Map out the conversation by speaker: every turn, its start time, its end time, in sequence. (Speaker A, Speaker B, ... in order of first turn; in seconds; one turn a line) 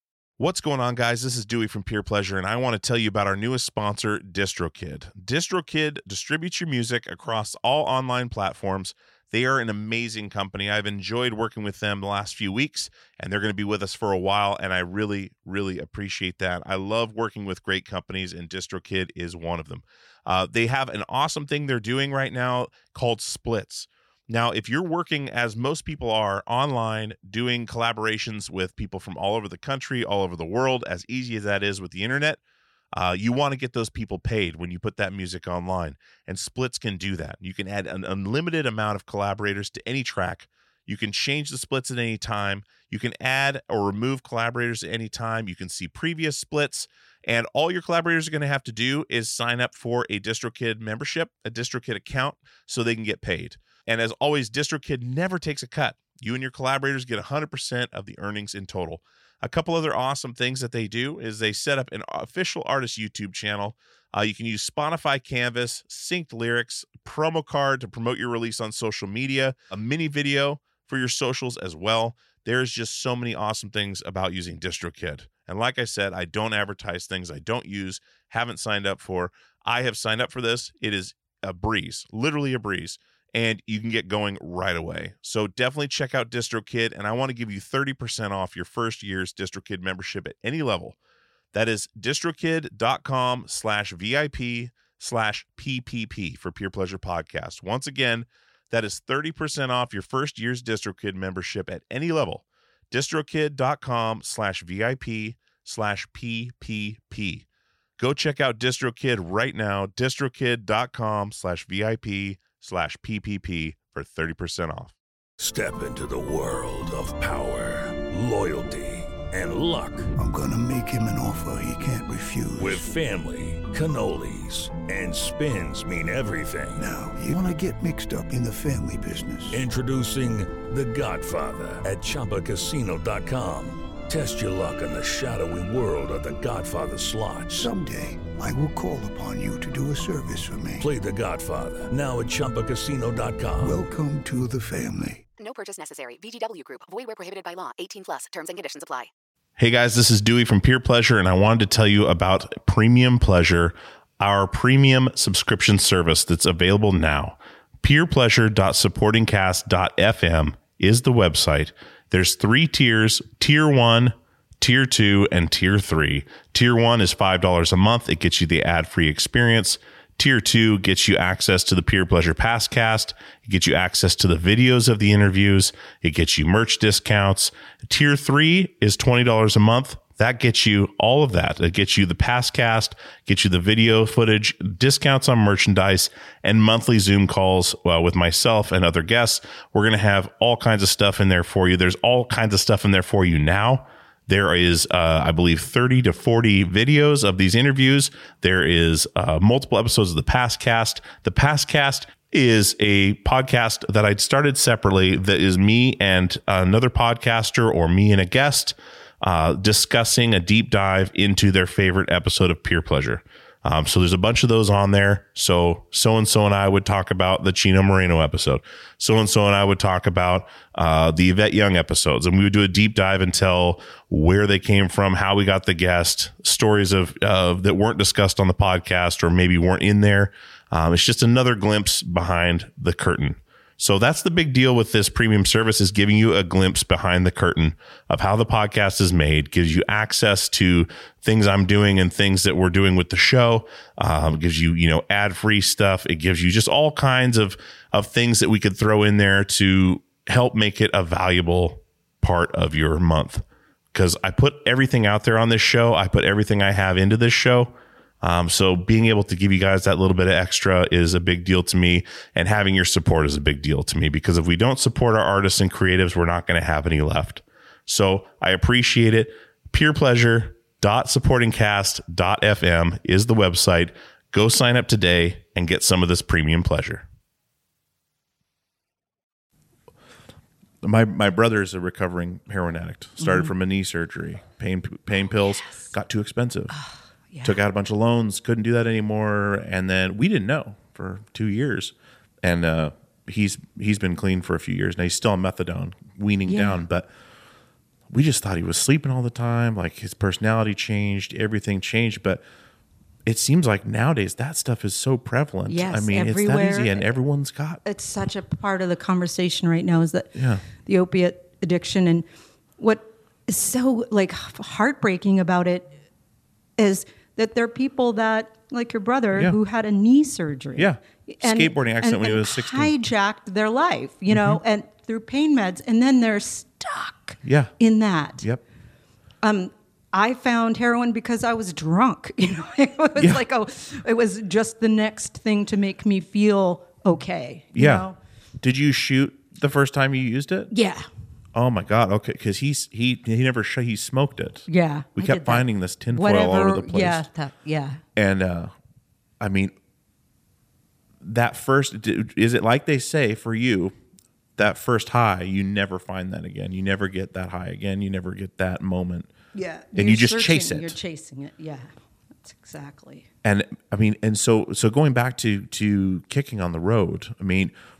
Speaker A: 0.4-32.4
Speaker A: 32.9-91.0
Speaker A: 91.5-107.4
Speaker A: 108.0-114.9
Speaker B: 115.4-120.1
Speaker C: 120.2-122.9
Speaker B: 122.5-126.8
Speaker C: 126.8-129.6
Speaker B: 129.5-137.7
Speaker C: 137.5-140.9
Speaker B: 140.8-143.8
Speaker C: 143.6-145.2
Speaker D: 145.4-149.1
Speaker A: 149.6-277.0
Speaker A: 280.8-286.7
Speaker E: 283.2-283.5
Speaker E: 286.7-287.6
Speaker A: 287.4-297.1
Speaker E: 296.4-296.8
Speaker A: 298.1-302.4
Speaker A: 303.2-307.8
Speaker E: 305.7-307.1
Speaker E: 307.8-312.2
Speaker A: 310.3-310.6
Speaker E: 312.8-316.0
Speaker E: 316.8-328.4
Speaker A: 320.8-322.9
Speaker A: 324.3-324.6
Speaker A: 327.4-327.7
Speaker E: 329.4-338.1
Speaker A: 333.2-333.4
Speaker A: 337.7-338.1
Speaker A: 338.6-340.7
Speaker E: 340.7-341.1
Speaker A: 341.5-347.3
Speaker E: 344.7-348.0
Speaker A: 348.1-348.7
Speaker A: 349.4-349.7
Speaker A: 351.2-353.9
Speaker A: 354.6-359.3
Speaker E: 359.5-361.9
Speaker A: 359.9-361.0
Speaker E: 362.4-363.3
Speaker A: 363.4-367.7